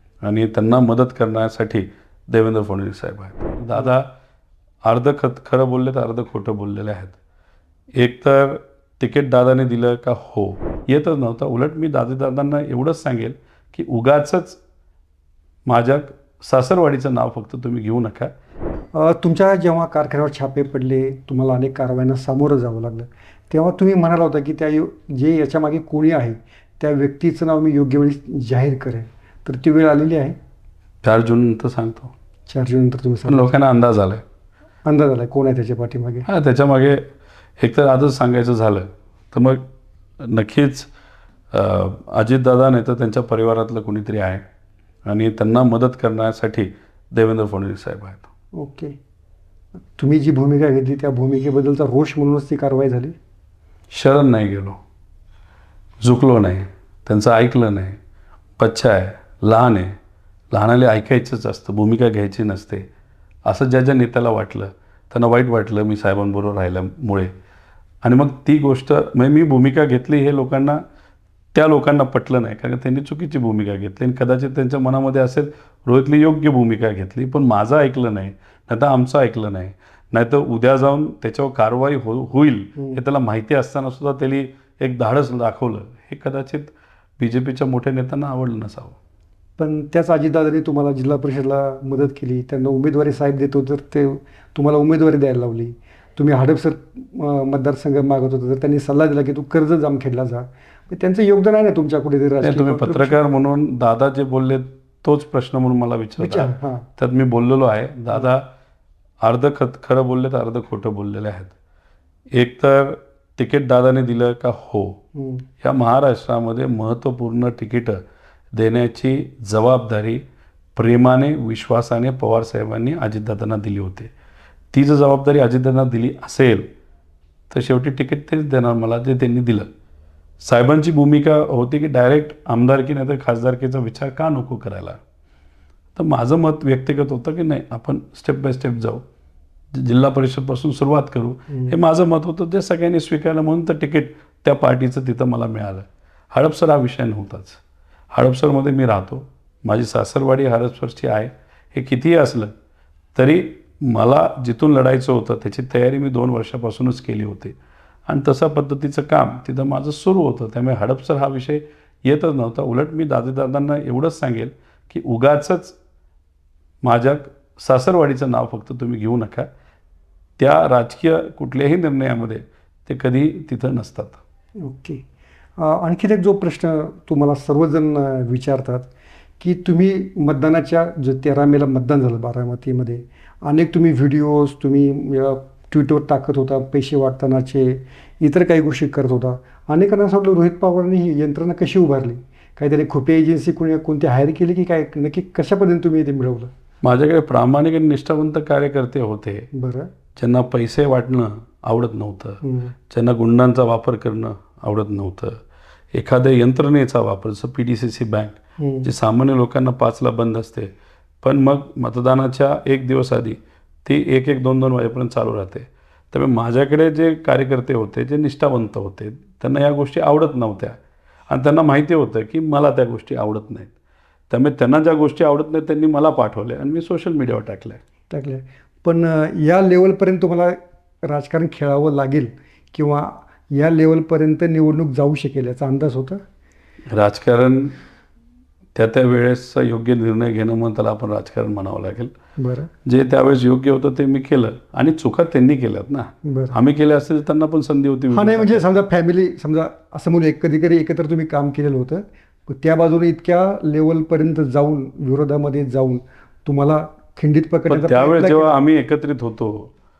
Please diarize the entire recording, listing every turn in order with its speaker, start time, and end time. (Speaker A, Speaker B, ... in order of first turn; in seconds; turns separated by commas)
Speaker A: 0.2-4.1, Speaker A: 4.8-7.2, Speaker A: 8.0-14.6, Speaker A: 15.7-18.3, Speaker B: 18.9-30.4, Speaker A: 31.0-32.1, Speaker B: 32.5-33.5, Speaker A: 33.2-34.2, Speaker B: 34.8-36.3, Speaker A: 36.3-37.0, Speaker A: 37.6-39.7, Speaker A: 40.2-40.9, Speaker A: 41.5-44.4, Speaker A: 45.0-48.3, Speaker B: 48.5-49.0, Speaker B: 50.0-53.2, Speaker A: 53.9-54.8, Speaker A: 56.0-58.0, Speaker A: 58.6-60.0, Speaker A: 60.5-62.9, Speaker A: 63.5-67.3, Speaker A: 68.0-70.8, Speaker A: 71.5-89.0, Speaker B: 89.6-103.2, Speaker A: 102.4-108.5, Speaker B: 106.2-106.8, Speaker A: 109.2-111.5, Speaker A: 112.3-115.0, Speaker B: 115.1-115.4, Speaker A: 115.6-118.0, Speaker A: 118.5-120.2, Speaker A: 120.8-124.1, Speaker A: 124.7-126.7, Speaker A: 127.5-129.7, Speaker A: 130.4-135.0, Speaker A: 136.0-139.0, Speaker A: 139.7-147.6, Speaker A: 148.1-152.5, Speaker A: 153.2-157.6, Speaker A: 158.1-165.8, Speaker A: 166.8-169.5, Speaker A: 170.4-174.2, Speaker B: 174.6-175.0, Speaker B: 175.6-196.5, Speaker A: 196.8-199.5, Speaker B: 199.5-199.9, Speaker A: 200.2-205.4, Speaker B: 202.4-202.7, Speaker A: 205.9-220.8, Speaker B: 208.6-208.9, Speaker A: 221.3-223.7, Speaker A: 224.3-227.8, Speaker B: 228.1-236.2, Speaker A: 236.9-237.8, Speaker A: 238.8-242.1, Speaker B: 242.4-242.7, Speaker A: 242.8-248.7, Speaker B: 246.2-246.6, Speaker B: 248.1-258.6, Speaker A: 257.7-259.7